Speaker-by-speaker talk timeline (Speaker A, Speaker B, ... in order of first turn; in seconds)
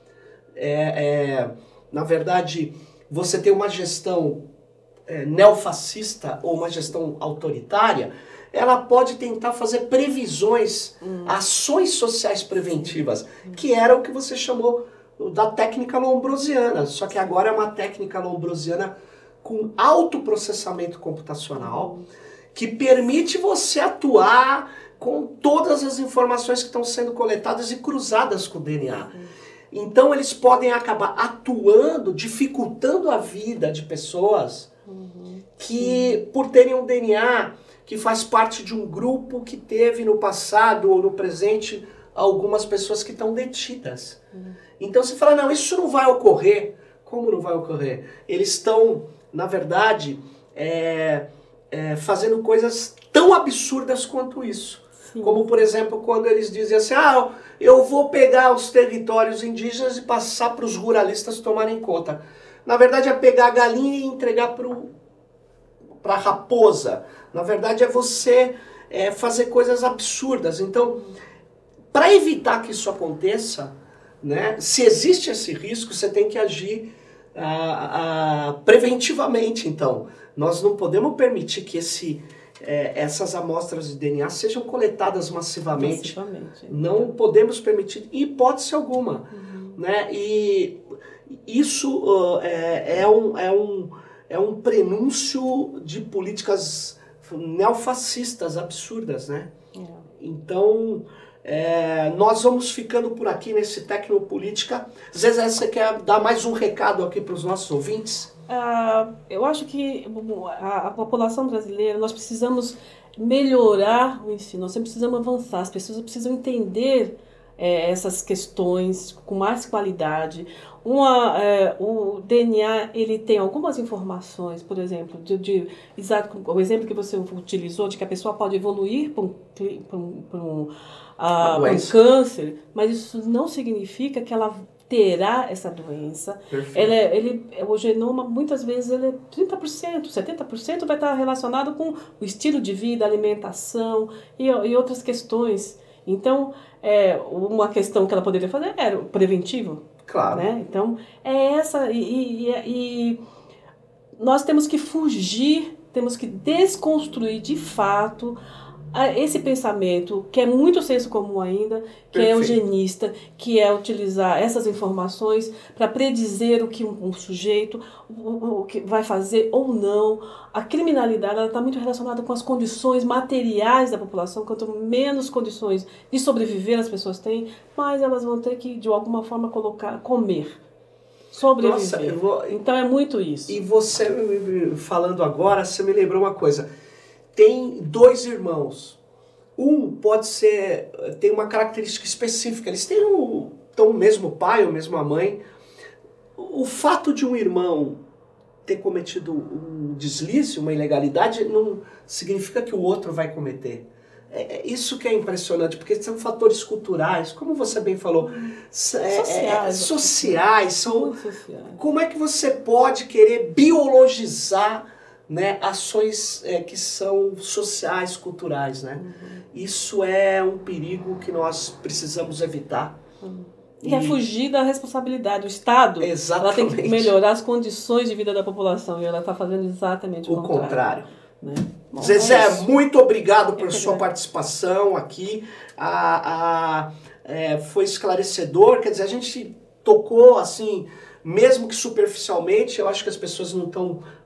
Speaker A: 0.6-4.4, 5.1-21.9, 22.5-29.1, 29.7-34.7, 35.6-44.2, 44.8-64.9, 66.0-71.0, 71.9-86.1, 86.7-99.5, 100.2-108.3, 131.4-131.9, 136.5-136.9, 150.0-150.5, 162.1-162.6, 181.6-182.6, 183.5-186.6, 187.3-189.0, 189.6-195.4, 196.4-198.0, 198.6-211.2, 211.8-223.0, 223.8-224.2, 226.0-227.1, 230.3-231.1, 232.0-244.0
Speaker B: 11.0-11.3, 21.6-22.1, 34.9-36.2, 55.0-55.4, 85.7-87.1, 89.3-89.8, 99.7-100.1, 108.5-153.2, 154.2-158.3, 158.9-180.6, 181.3-183.6, 208.2-211.8, 219.0-219.4, 223.2-232.7, 233.6-234.0